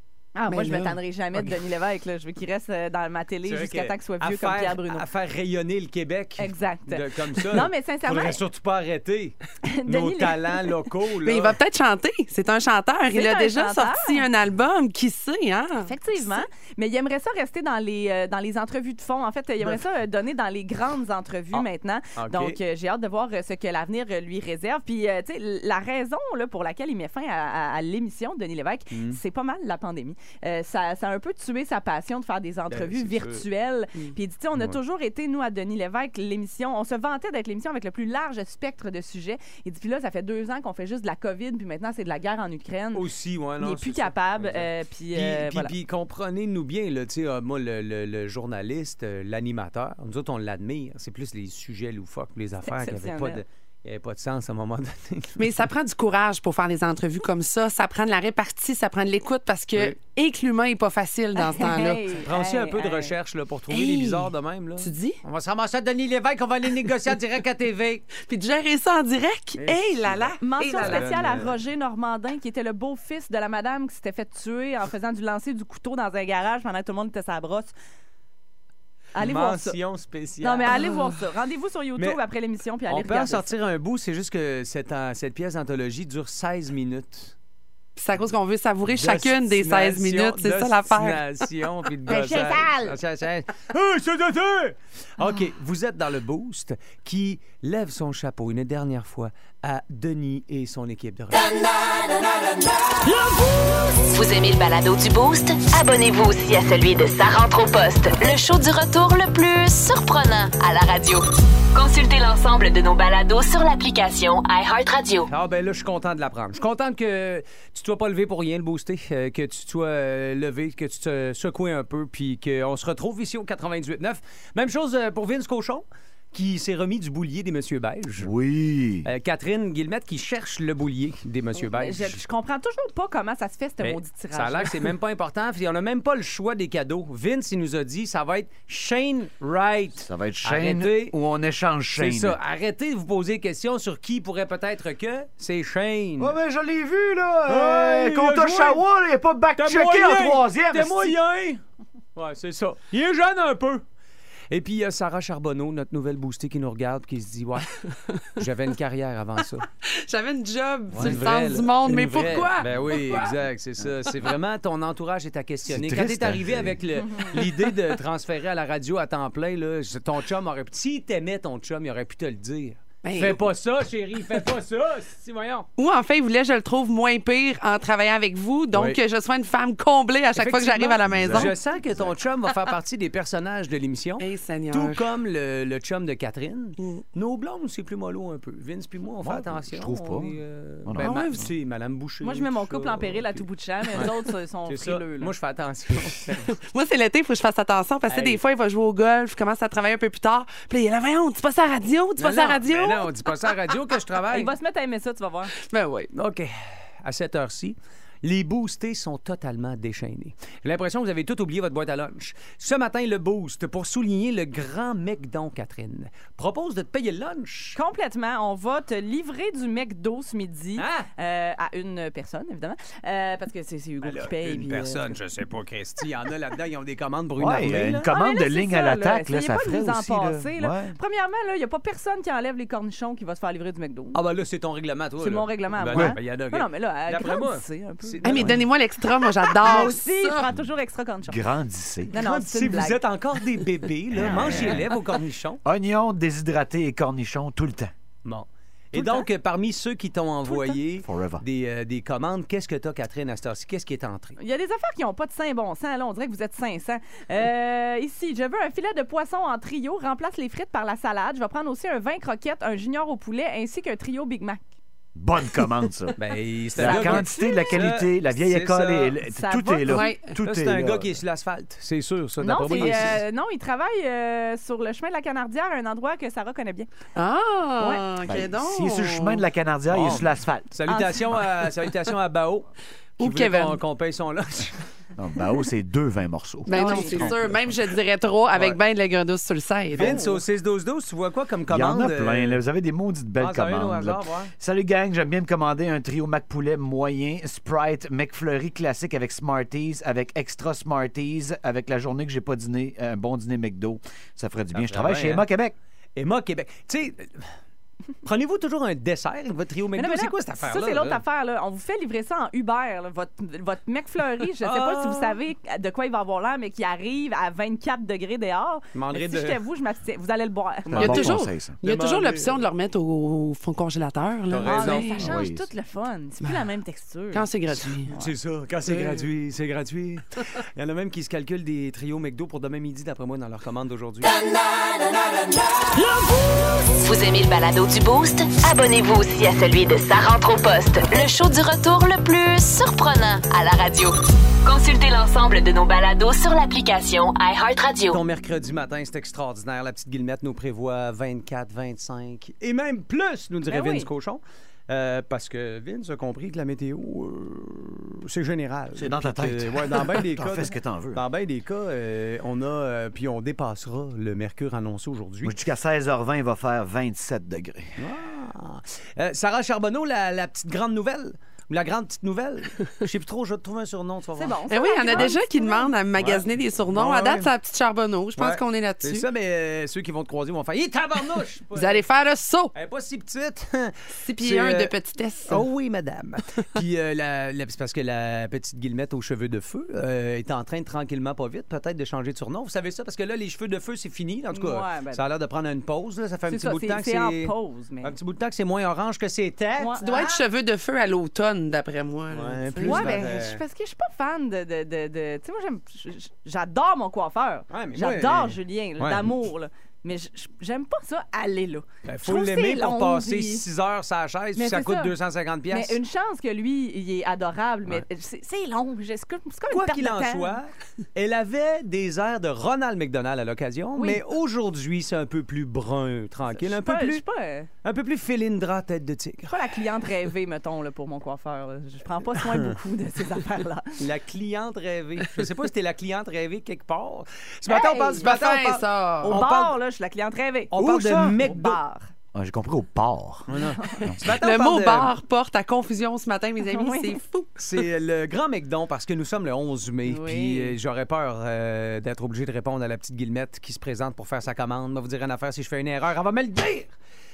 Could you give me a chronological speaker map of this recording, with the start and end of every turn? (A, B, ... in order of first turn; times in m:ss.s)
0:00.4-0:05.1 A
0:00.5-0:01.6 B
0:03.4-0:11.6 B
0:06.4-0:08.4 A
0:09.7-0:10.7 A
0:11.2-0:16.3 C
0:13.1-0:14.2 A
0:15.8-0:43.1 A
0:21.5-0:22.6 B
0:28.9-0:29.2 B
0:32.7-0:33.5 B
0:34.0-0:34.8 B
0:42.9-0:55.4 B
0:43.6-0:45.8 A
0:52.6-0:53.4 A
0:55.4-1:02.0 C
1:01.4-1:03.1 A
1:02.3-1:08.0 B
1:03.7-1:05.2 C
1:08.2-1:11.1 C
1:09.6-1:11.6 B
1:10.4-1:17.7 A
1:19.2-1:19.8 A
1:19.2-1:21.2 B
1:20.4-1:23.5 A
1:22.9-1:27.3 B
1:28.0-1:31.4 C
1:28.8-1:41.6 B
1:32.1-1:32.5 C
1:44.1-1:55.3 D
1:55.3-2:08.3 B
2:08.2-2:09.1 E
2:09.0-2:12.2 B
2:11.7-2:14.8 A
2:13.8-2:21.2 B
2:20.0-2:22.4 E
2:22.0-2:26.4 B
2:26.2-2:31.2 E
2:27.5-2:28.8 B
2:29.6-2:31.6 B
2:32.2-2:33.8 B
2:34.5-2:37.7 B
2:38.4-2:39.7 B
2:39.9-2:43.3 C
2:40.9-2:55.7 B
2:45.7-2:46.8 E
2:47.0-2:47.3 A
2:53.0-2:53.4 C
2:55.8-3:01.6 C
2:58.7-2:59.0 B
3:00.4-3:14.2 B
3:01.1-3:02.1 E
3:04.2-3:05.0 C
3:09.2-3:10.3 E
3:10.8-3:11.5 E
3:11.0-3:11.4 C
3:12.2-3:15.3 A
3:14.7-3:16.5 B
3:16.5-3:23.3 C
3:18.1-3:18.4 B
3:22.2-3:24.5 B
3:24.3-3:25.5 A
3:25.7-3:26.1 C
3:26.1-3:37.8 B
3:37.8-3:45.2 A
3:40.8-3:41.1 B
3:44.0-3:48.1 B
3:47.4-3:51.0 E
3:48.0-3:54.2 A
3:54.1-3:58.6 B
3:55.2-3:58.3 A
3:58.2-4:00.4 C
3:58.3-3:58.6 E
3:59.6-4:01.4 A
4:01.3-4:02.1 E
4:02.1-4:05.6 B
4:02.1-4:03.0 A
4:04.2-4:04.8 E
4:05.6-4:07.9 E
4:08.2-4:14.4 B
4:08.9-4:09.3 A
4:10.5-4:10.8 A
4:11.0-4:11.4 E
4:14.4-4:24.6 A
4:25.2-4:26.2 E
4:26.2-4:29.2 B
4:26.8-4:31.2 E
4:26.8-4:27.9 A
4:29.2-4:30.0 A
4:29.9-4:30.3 C
4:30.4-4:33.2 B
4:32.4-4:36.9 A
4:37.2-4:39.4 C
4:38.2-4:40.7 E
4:39.9-4:42.7 B
4:40.9-4:41.4 A
4:43.2-4:43.8 C
4:43.2-4:44.8 B
4:45.2-4:47.8 E
4:46.7-4:50.4 C
4:46.7-4:47.2 A
4:49.9-4:52.6 B
4:51.7-5:05.7 E
4:53.4-4:54.5 B
5:04.7-5:05.5 B
5:06.2-5:07.6 B
5:08.2-5:11.2 B
5:10.0-5:21.2 A
5:14.6-5:15.4 B
5:18.9-5:19.6 B
5:20.9-5:22.6 B
5:21.0-5:21.8 E
5:21.0-5:25.2 C
5:24.5-5:25.2 B
5:24.6-5:27.5 A
5:25.2-5:25.7 E
5:27.3-5:28.1 C
5:28.1-5:34.4 B
5:37.0-5:48.2 D
5:48.1-6:05.5 B
5:53.7-5:54.1 A
5:58.9-6:01.2 E
6:05.4-6:08.0 E
6:08.0-6:15.4 B
6:14.4-6:15.9 A
6:14.7-6:19.2 C
6:16.2-6:17.5 B
6:18.4-6:22.0 B
6:21.7-6:22.7 C
6:22.7-6:24.9 B
6:24.2-6:25.7 C
6:25.5-6:40.4 B
6:34.5-6:35.3 A
6:36.5-6:38.2 A
6:39.8-6:40.0 A
6:40.0-6:43.3 C
6:42.3-6:43.6 B
6:42.8-6:53.6 A
6:47.7-6:49.3 B
6:52.0-6:56.0 B
6:54.6-6:55.2 A
6:55.7-7:00.6 A
6:59.7-7:07.2 B
7:04.0-7:04.2 A
7:06.5-7:07.7 A
7:07.8-7:09.6 B
7:09.5-7:14.0 A
7:12.4-7:12.7 B
7:14.0-7:19.8 B
7:17.7-7:18.3 A
7:18.2-7:19.4 C
7:19.2-7:22.1 A
7:20.7-7:21.8 B
7:20.8-7:21.4 E
7:22.3-7:24.4 E
7:23.5-7:25.1 B
7:24.2-7:27.5 C
7:26.6-7:27.2 A
7:27.6-7:36.9 B
7:30.1-7:30.8 A